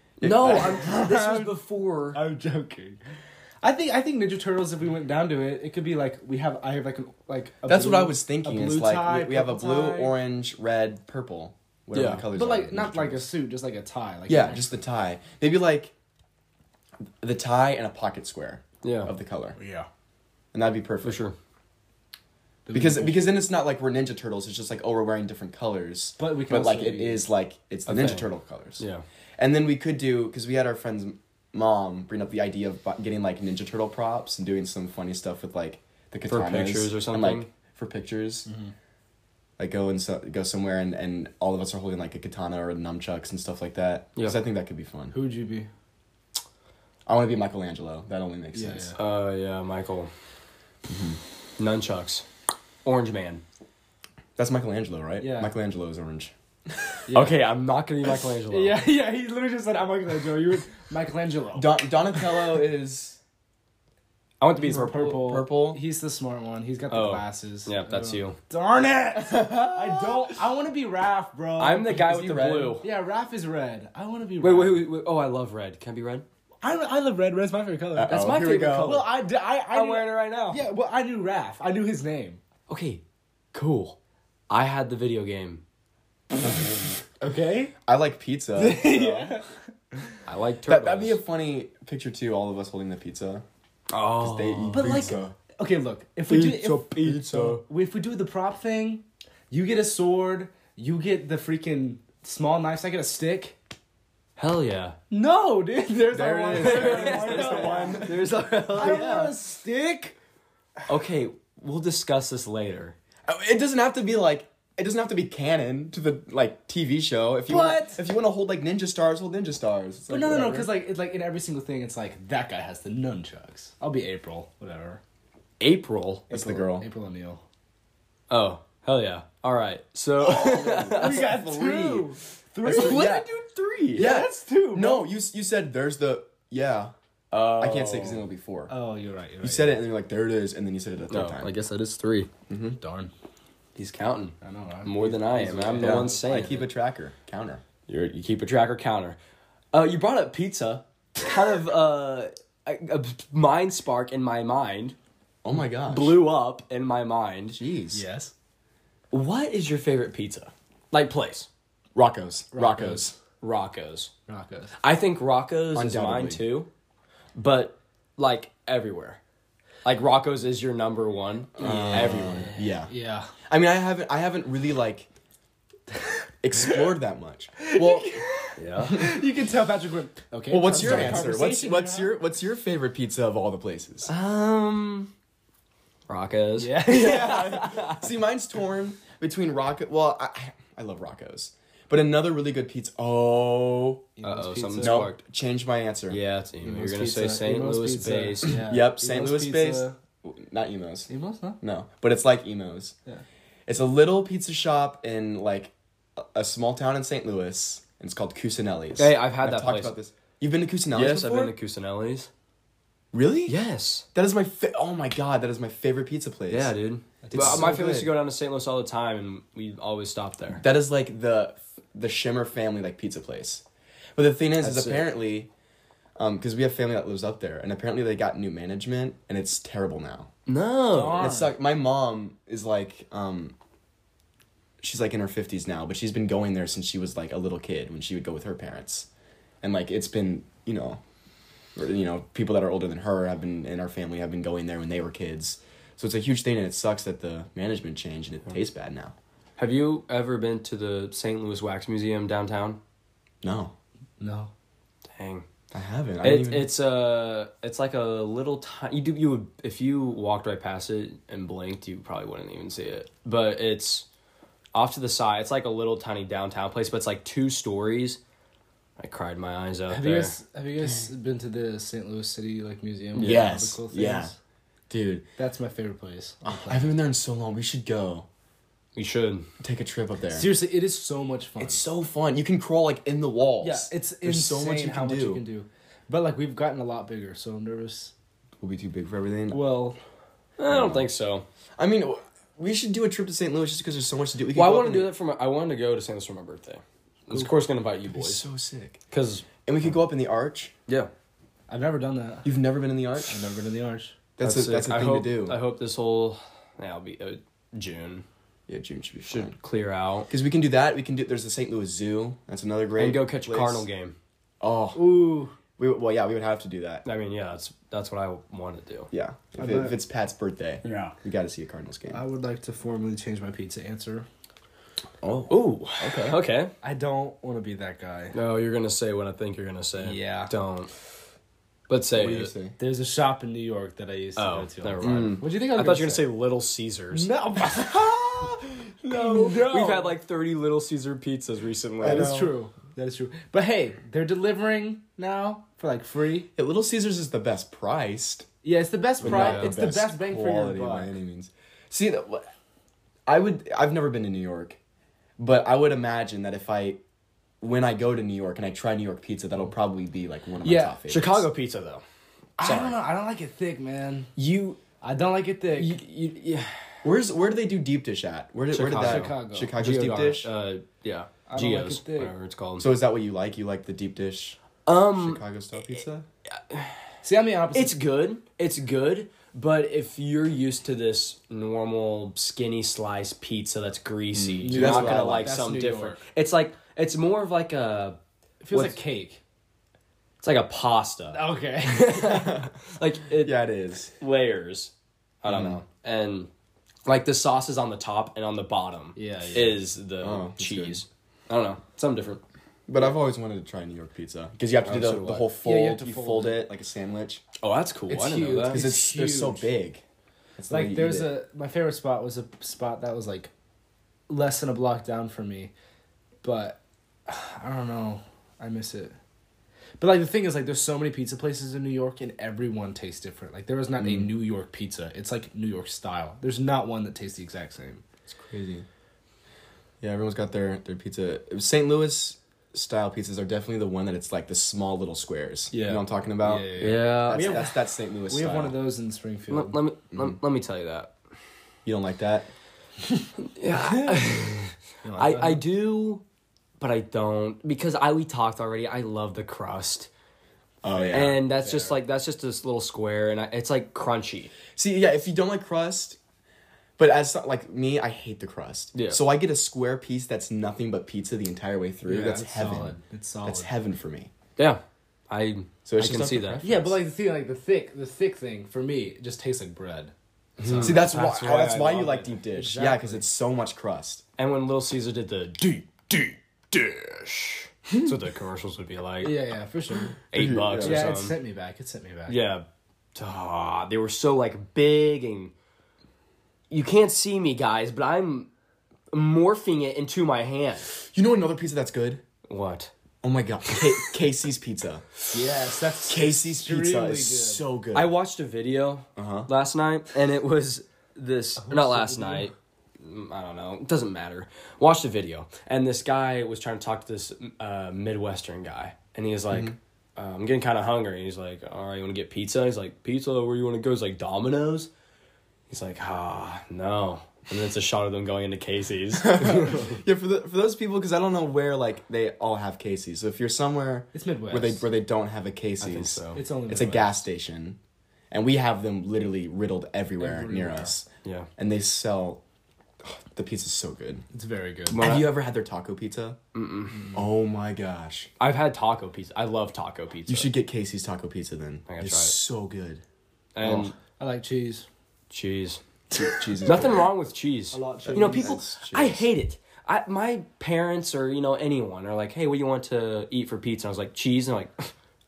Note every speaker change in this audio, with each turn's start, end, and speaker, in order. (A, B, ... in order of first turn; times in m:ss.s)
0:00.2-0:00.8 A
0:00.2-0:02.2 B
0:00.6-0:01.6 C
0:02.1-0:03.0 C
0:03.6-0:10.2 C
0:07.7-0:13.2 A
0:11.9-0:12.3 B
0:12.3-0:14.7 C
0:14.3-0:15.9 A
0:17.2-0:19.6 A
0:18.8-0:19.1 B
0:19.6-0:19.9 C
0:20.5-0:21.2 A
0:21.0-0:21.4 B
0:22.7-0:23.4 C
0:22.7-0:28.8 A
0:26.2-0:27.3 C
0:27.9-0:29.0 B
0:29.4-0:38.5 A
0:36.3-0:37.5 B
0:39.6-0:45.1 A
0:45.1-0:45.7 C
0:47.1-0:48.9 A
0:48.5-0:49.0 C
0:49.0-0:50.1 B
0:50.9-0:51.2 A
0:51.6-0:52.3 B
0:52.8-0:53.4 B
0:54.4-0:56.9 A
0:55.2-0:55.5 C
0:57.1-0:57.4 C
0:57.1-0:58.8 B
0:58.5-1:02.5 C
1:01.6-1:03.2 A
1:04.4-1:05.0 B
1:04.6-1:12.1 C
1:04.7-1:05.8 A
1:06.9-1:08.4 B
1:09.2-1:10.4 A
1:11.6-1:12.9 B
1:11.9-1:12.8 A
1:12.8-1:14.8 C
1:14.4-1:16.2 B
1:16.6-1:22.4 C
1:17.9-1:19.0 A
1:18.1-1:19.1 B
1:19.7-1:20.6 B
1:22.7-1:23.0 B
1:23.5-1:24.0 B
1:24.5-1:25.6 B
1:27.2-1:27.8 C
1:27.8-1:29.4 A
1:28.6-1:29.5 C
1:30.3-1:31.2 B
1:30.7-1:33.4 A
1:33.9-1:35.1 B
1:34.2-1:35.4 A
1:34.7-1:43.6 C
1:36.3-1:37.6 B
1:36.6-1:37.6 A
1:44.4-1:45.0 B
1:45.1-1:48.2 C
1:46.1-1:48.2 A
1:46.6-1:49.4 B
1:48.7-1:50.2 C
1:50.9-1:53.0 B
1:53.3-2:00.7 A
1:57.5-1:58.0 C
2:00.1-2:05.0 C
2:05.6-2:06.3 B
2:06.3-2:06.9 A
2:06.3-2:07.4 C
2:08.3-2:11.4 B
2:10.2-2:12.1 A
2:10.5-2:13.3 C
2:12.6-2:16.9 A
2:12.7-2:13.1 B
2:13.9-2:15.1 C
2:17.3-2:18.3 B
2:17.6-2:18.7 A
2:18.7-2:19.8 C
2:19.4-2:21.5 A
2:21.1-2:22.3 B
2:22.5-2:22.8 A
2:22.8-2:23.1 C
2:23.8-2:26.6 B
2:24.4-2:26.3 C
2:25.8-2:27.6 A
2:27.9-2:29.2 B
2:29.7-2:35.0 B
2:35.4-2:36.2 A
2:35.9-2:37.6 B
2:37.5-2:38.0 A
2:37.9-2:38.3 C
2:39.1-2:41.5 B
2:42.0-2:43.2 A
2:42.5-2:43.1 C
2:43.4-2:44.1 B
2:44.3-2:44.7 C
2:44.8-2:46.7 B
2:45.7-2:46.4 A
2:47.4-2:49.2 B
2:49.8-2:52.5 B
2:51.6-2:52.9 A
2:51.7-2:53.3 C
2:53.5-2:55.1 A
2:56.4-2:58.2 A
2:57.6-3:02.2 C
2:58.6-2:59.0 B
2:58.9-2:59.2 A
3:00.5-3:04.1 A
3:04.1-3:05.1 B
3:06.1-3:08.0 B
3:06.6-3:07.6 C
3:06.9-3:14.1 A
3:14.2-3:15.1 C
3:14.2-3:15.2 B
3:14.8-3:16.2 A
3:16.1-3:18.6 B
3:16.6-3:20.0 C
3:18.6-3:21.1 A
3:21.1-3:21.6 C
3:21.6-3:23.0 A
3:23.7-3:31.5 A
3:29.0-3:30.0 B
3:30.9-3:32.3 B
3:33.1-3:33.6 A
3:33.5-3:34.1 B
3:34.1-3:36.7 A
3:36.5-3:40.6 B
3:37.2-3:37.8 C
3:37.3-3:38.1 A
3:40.6-3:43.6 A
3:44.2-3:45.5 A
3:44.6-3:45.1 B
3:46.2-3:50.3 A
3:50.5-3:51.3 B
3:50.9-3:51.6 C
3:51.2-3:53.6 A
3:54.8-3:59.1 A
3:59.6-4:01.0 A
4:01.8-4:09.1 A
4:09.6-4:12.8 B
4:13.4-4:13.7 A
4:14.2-4:14.5 C
4:15.1-4:15.4 B
4:15.7-4:16.7 A
4:16.2-4:24.1 B
4:24.7-4:28.2 B
4:29.0-4:30.4 B
4:29.9-4:34.4 C
4:33.2-4:33.5 B
4:33.2-4:34.3 A
4:34.9-4:35.2 A
4:35.4-4:37.0 C
4:36.5-4:38.3 A
4:39.0-4:39.5 B
4:39.6-4:40.5 A
4:40.3-4:41.8 C
4:41.6-4:45.4 A
4:43.6-4:48.1 C
4:48.6-4:49.6 A
4:49.5-4:50.0 C
4:50.6-4:51.4 B
4:50.7-4:51.1 A
4:51.8-4:55.1 A
4:54.5-4:58.5 B
4:58.1-4:59.0 A
4:59.1-4:59.5 B
4:59.6-5:00.7 A
5:01.7-5:02.5 C
5:02.4-5:03.4 A
5:03.2-5:04.2 C
5:04.4-5:05.6 A
5:04.4-5:08.3 B
5:08.7-5:09.5 A
5:09.3-5:10.3 B
5:10.3-5:13.9 A
5:13.0-5:14.2 B
5:14.6-5:17.0 A
5:15.0-5:15.5 C
5:17.0-5:19.1 B
5:19.1-5:22.2 A
5:19.6-5:20.0 C
5:20.9-5:21.1 C
5:22.1-5:24.3 C
5:25.2-5:26.4 A
5:25.5-5:26.7 B
5:26.8-5:28.4 C
5:28.3-5:30.9 B
5:30.0-5:30.5 C
5:31.9-5:32.5 B
5:32.2-5:32.8 A
5:32.8-5:36.2 C
5:34.4-5:37.3 B
5:35.0-5:35.4 A
5:37.1-5:40.2 C
5:37.8-5:39.7 A
5:39.6-5:42.3 B
5:42.0-5:42.6 A
5:42.0-5:46.5 C
5:46.6-5:48.5 A
5:48.6-5:51.2 C
5:49.2-5:52.5 A
5:49.2-5:49.7 B
5:53.3-5:54.8 A
5:55.4-5:57.0 A
5:57.6-6:01.5 A
6:00.6-6:01.0 C
6:01.1-6:02.0 B
6:02.6-6:04.3 C
6:02.6-6:03.0 B
6:04.4-6:04.8 B
6:05.0-6:06.0 C
6:05.8-6:07.0 B
6:07.0-6:10.5 A
6:08.7-6:12.9 B
6:08.9-6:10.1 C
6:11.5-6:12.3 C
6:12.8-6:14.6 A
6:14.9-6:15.4 B
6:15.2-6:16.3 A
6:16.6-6:17.0 B
6:17.2-6:18.0 C
6:17.7-6:28.2 B
6:24.3-6:25.5 A
6:24.6-6:26.2 C
6:28.6-6:29.4 C
6:30.4-6:33.6 B
6:31.3-6:32.5 C
6:32.3-6:32.7 A
6:33.4-6:34.1 A
6:34.2-6:36.5 B
6:35.5-6:35.8 A
6:37.1-6:42.4 B
6:39.2-6:39.8 C
6:40.2-6:41.0 A
6:42.9-6:47.4 A
6:44.8-6:45.5 B
6:45.6-6:46.7 C
6:47.6-6:48.8 B
6:48.1-6:49.7 C
6:48.7-6:50.0 A
6:50.6-6:51.3 A
6:50.7-6:53.5 C
6:54.3-6:55.7 C
6:56.4-6:59.2 C
7:00.0-7:08.0 C
7:04.0-7:04.3 A
7:08.3-7:08.9 A
7:10.0-7:18.8 A
7:15.7-7:16.0 B
7:16.4-7:19.8 C
7:16.8-7:17.6 B
7:19.5-7:21.1 B
7:21.8-7:22.5 A
7:23.4-7:26.2 B
7:25.0-7:25.6 C
7:26.8-7:30.1 B
7:30.8-7:31.4 A
7:30.9-7:32.0 C
7:31.1-7:34.5 B
7:34.8-7:36.2 A
7:37.0-7:44.3 A
7:38.9-7:39.2 B
7:42.0-7:43.7 C
7:44.6-7:46.6 B
7:45.8-7:47.0 A
7:46.6-7:53.2 C
7:50.6-7:51.9 B
7:50.7-7:54.2 A
7:54.4-7:59.4 B
7:59.2-8:00.2 C
8:00.3-8:01.4 B
8:00.3-8:01.1 A
8:00.8-8:02.4 C
8:02.3-8:05.5 B
8:06.7-8:08.5 B
8:09.1-8:10.9 B
8:11.1-8:12.2 A
8:12.5-8:12.9 B
8:13.2-8:15.0 A
8:15.3-8:17.6 C
8:16.1-8:18.1 A
8:17.9-8:34.9 B
8:19.2-8:19.5 A
8:21.6-8:22.5 C
8:35.7-8:40.0 B
8:39.2-8:47.8 A
8:44.1-8:44.9 C
8:45.8-8:46.4 B
8:46.3-8:47.2 C
8:48.3-8:52.4 A
8:50.2-8:50.9 C
8:53.0-8:54.2 A
8:54.3-8:55.1 C
8:54.9-8:55.3 B
8:55.0-8:56.4 A
8:56.5-8:57.1 B
8:57.1-8:58.3 A
8:58.4-9:00.5 B
9:00.3-9:03.0 A
9:01.9-9:02.4 B
9:03.6-9:04.0 B
9:03.6-9:03.9 A
9:04.0-9:04.9 C
9:05.3-9:05.8 B
9:06.1-9:07.1 A
9:06.2-9:06.5 C
9:06.6-9:14.9 B
9:07.7-9:08.6 C
9:08.0-9:09.2 A